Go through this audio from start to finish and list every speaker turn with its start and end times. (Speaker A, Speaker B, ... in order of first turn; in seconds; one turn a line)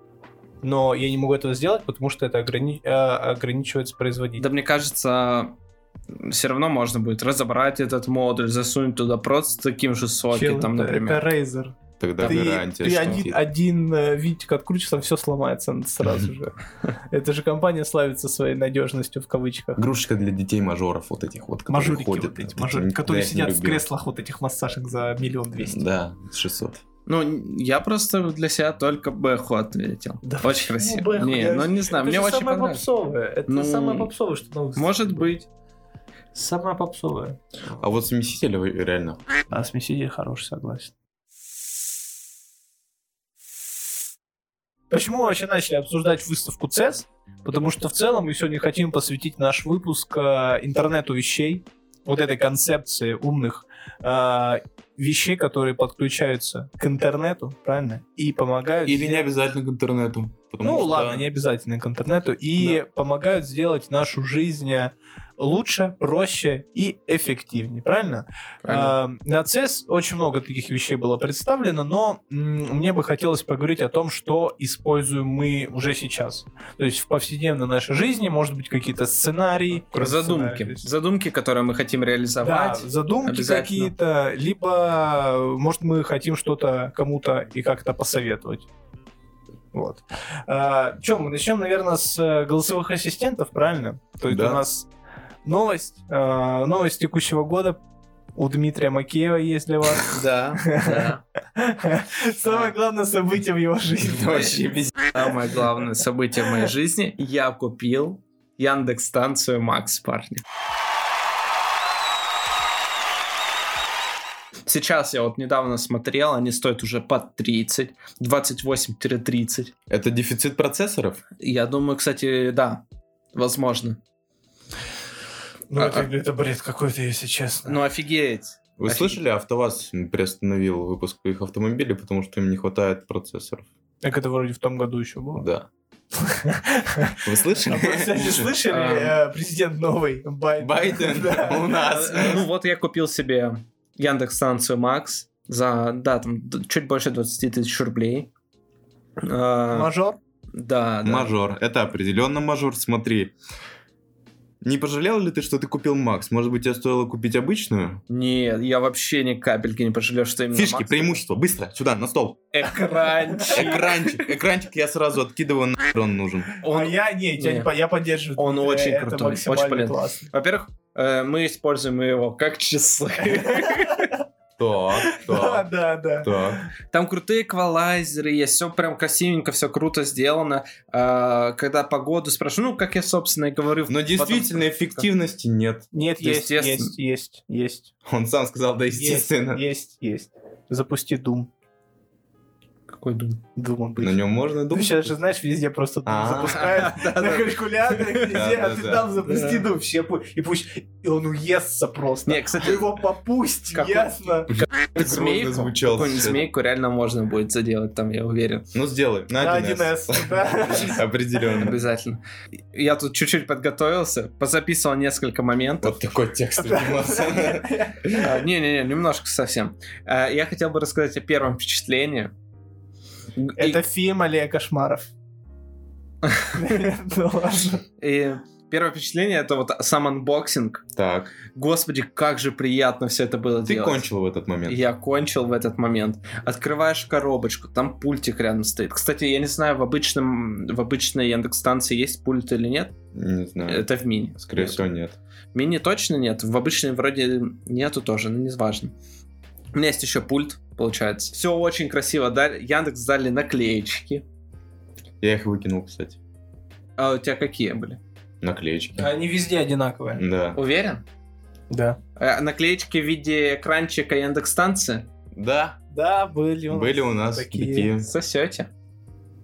Speaker A: 0.6-4.4
Speaker B: 4.4-5.5
Speaker B: 6.2-11.2
Speaker A: 10.3-16.5
Speaker C: 12.0-13.4
Speaker B: 12.2-12.5
Speaker A: 17.1-19.8
Speaker C: 19.8-23.8
Speaker A: 21.7-25.8
Speaker C: 25.6-26.8
Speaker B: 27.1-32.8
Speaker A: 30.2-35.2
Speaker B: 33.5-34.1
Speaker B: 34.8-35.5
Speaker A: 36.3-37.8
Speaker C: 37.8-39.2
Speaker A: 39.5-40.9
Speaker A: 44.9-59.3
Speaker C: 58.8-61.3
Speaker A: 60.6-80.9
Speaker B: 68.6-69.0
Speaker B: 79.9-83.9
Speaker A: 82.4-88.7
Speaker A: 89.7-94.9
Speaker C: 94.3-94.6
Speaker A: 95.4-97.8
Speaker A: 98.3-104.7
Speaker B: 100.0-101.2
Speaker B: 102.4-102.7
Speaker C: 104.1-104.9
Speaker B: 104.3-104.5
Speaker B: 105.1-110.4
Speaker B: 114.7-119.7
Speaker C: 119.9-121.2
Speaker B: 121.4-122.8
Speaker B: 123.3-124.0
Speaker A: 125.7-127.8
Speaker B: 125.8-126.1
Speaker B: 127.6-129.2
Speaker C: 128.8-133.7
Speaker A: 134.0-135.4
Speaker C: 135.4-135.7
Speaker A: 136.2-142.4
Speaker C: 137.2-138.5
Speaker B: 138.7-139.2
Speaker C: 140.6-142.4
Speaker B: 141.8-148.3
Speaker B: 149.2-149.9
Speaker A: 149.7-150.2
Speaker B: 150.5-151.3
Speaker C: 151.0-153.3
Speaker C: 154.6-158.0
Speaker B: 158.1-161.2
Speaker C: 160.5-162.4
Speaker B: 162.5-164.0
Speaker C: 163.5-166.5
Speaker B: 166.6-167.7
Speaker A: 166.7-170.3
Speaker B: 168.4-174.1
Speaker A: 173.4-174.2
Speaker C: 174.6-175.7
Speaker A: 175.0-176.3
Speaker C: 176.2-176.6
Speaker B: 176.9-185.1
Speaker C: 183.9-185.8
Speaker A: 185.9-187.9
Speaker B: 186.2-186.9
Speaker C: 188.0-189.6
Speaker A: 188.9-191.5
Speaker B: 192.9-193.4
Speaker A: 193.6-204.6
Speaker C: 194.0-195.1
Speaker C: 196.1-196.8
Speaker B: 196.4-198.1
Speaker C: 198.2-199.1
Speaker B: 199.2-199.6
Speaker B: 202.2-202.9
Speaker B: 203.7-204.1
Speaker C: 204.5-206.4
Speaker B: 204.8-208.7
Speaker C: 208.7-211.8
Speaker A: 209.3-211.0
Speaker B: 211.6-212.2
Speaker B: 212.7-216.0
Speaker C: 215.8-218.2
Speaker A: 216.6-218.2
Speaker B: 218.2-222.3
Speaker B: 223.4-223.8
Speaker A: 223.6-225.1
Speaker B: 226.2-226.6
Speaker A: 226.5-227.8
Speaker B: 228.0-230.8
Speaker C: 230.9-231.3
Speaker B: 231.5-234.1
Speaker C: 233.6-234.8
Speaker B: 234.7-242.9
Speaker C: 243.1-243.9
Speaker B: 243.7-244.8
Speaker C: 244.4-245.2
Speaker B: 245.5-248.9
Speaker B: 249.7-254.2
Speaker C: 255.2-256.2
Speaker B: 257.0-258.0
Speaker C: 258.4-259.1
Speaker A: 259.0-260.2
Speaker C: 260.1-260.6
Speaker B: 260.5-261.0
Speaker A: 261.7-262.0
Speaker B: 262.2-265.1
Speaker C: 265.3-265.8
Speaker A: 265.9-267.9
Speaker C: 266.7-268.1
Speaker B: 268.0-268.7